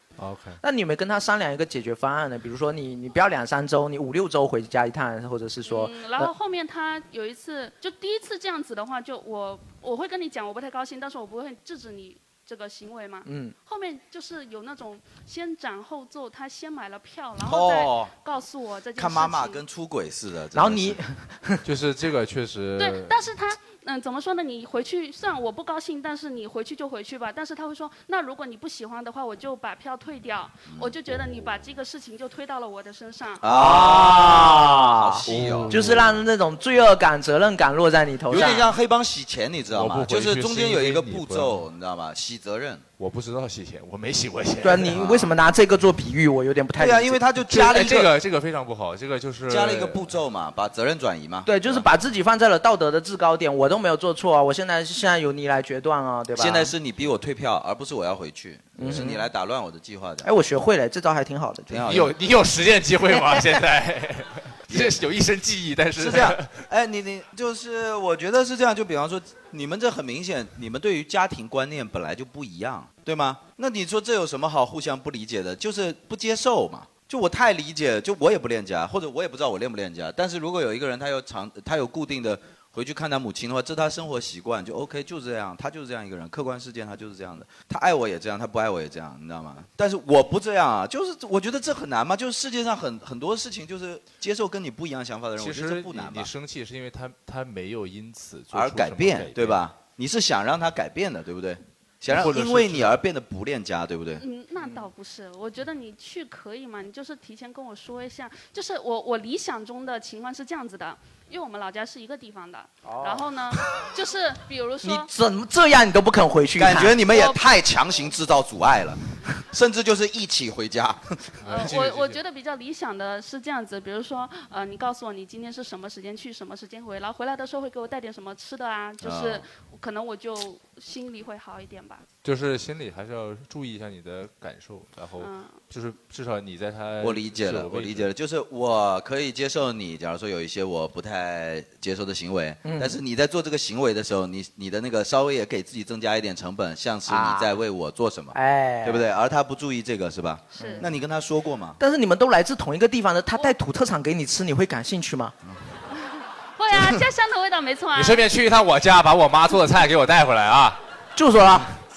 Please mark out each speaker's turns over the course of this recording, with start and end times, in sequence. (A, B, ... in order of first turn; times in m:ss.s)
0:00.2-0:00.6 A
0:00.6-0:06.3 B
0:05.6-0:19.6 C
0:13.2-0:13.5 B
0:17.4-0:18.1 D
0:19.0-0:21.0 D
0:20.5-0:21.6 B
0:21.6-0:23.2 A
0:22.8-0:33.4 C
0:30.7-0:30.9 D
0:33.4-0:35.8 D
0:33.4-0:38.7 B
0:35.2-0:36.2 A
0:38.3-0:42.8 D
0:39.7-0:41.6 A
0:43.0-0:45.1 A
0:44.6-0:47.2 B
0:46.8-0:48.1 D
0:47.5-0:50.1 A
0:49.5-0:51.8 D
0:51.4-0:56.7 B
0:56.4-1:00.3 D
0:58.8-0:59.2 B
0:58.9-0:59.1 A
1:00.2-1:01.8 B
1:01.7-1:02.1 D
1:01.8-1:06.5 A
1:04.7-1:05.0 D
1:06.0-1:36.3 D
1:35.4-1:39.6 A
1:38.5-1:44.2 D
1:42.1-1:43.0 A
1:44.2-1:55.1 C
1:52.8-1:53.3 B
1:54.8-1:57.0 B
1:56.6-2:01.2 D
1:57.1-1:57.5 C
2:01.4-2:02.2 A
2:01.4-2:12.0 C
2:09.0-2:09.4 D
2:12.2-2:18.1 A
2:15.2-2:15.6 C
2:17.0-2:31.8 D
2:22.6-2:23.0 B
2:27.1-2:27.5 B
2:28.3-2:29.0 B
2:30.6-2:30.8 C
2:30.6-2:30.9 B
2:31.8-2:35.3 B
2:36.0-2:38.2 C
2:37.9-2:40.8 A
2:41.2-2:41.7 B